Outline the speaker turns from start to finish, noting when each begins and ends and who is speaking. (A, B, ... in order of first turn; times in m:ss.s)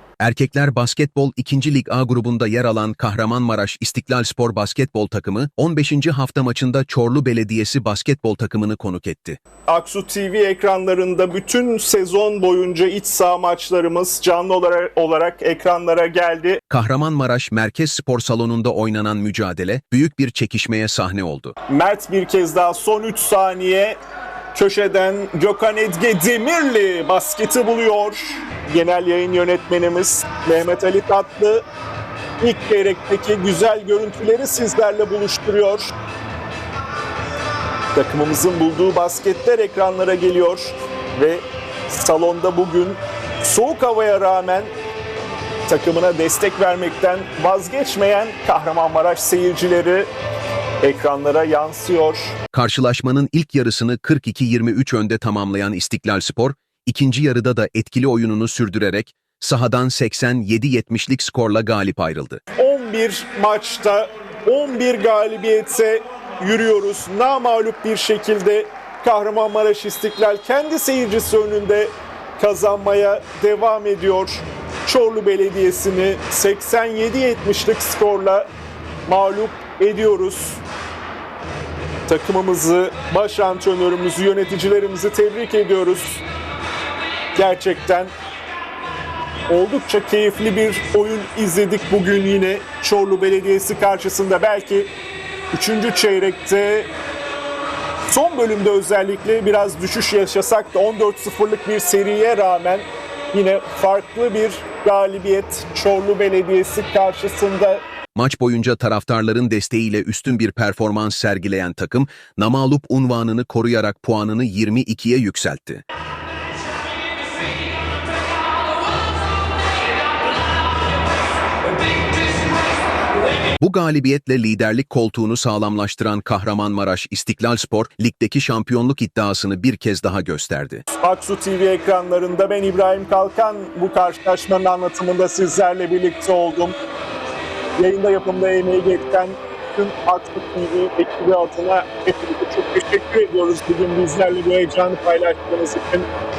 0:00.2-0:09.4 A
0:09.7-0:16.6 B
0:16.7-0:21.5 A
0:21.7-0:24.0 B
0:24.5-0:31.6 B
0:32.4-0:35.9 B
0:38.0-0:44.7 B
0:45.7-0:50.1 B
0:50.8-0:52.4 B
0:52.5-1:02.4 A
1:02.6-1:18.5 B
1:19.1-1:20.6 B
1:22.1-1:26.2 B
1:27.4-1:28.1 B
1:29.5-1:34.9 B
1:35.5-1:36.9 B
1:38.1-1:47.8 B
1:48.2-1:55.8 A
2:03.6-2:10.8 A
2:11.0-2:16.7 B
2:17.8-2:26.1 B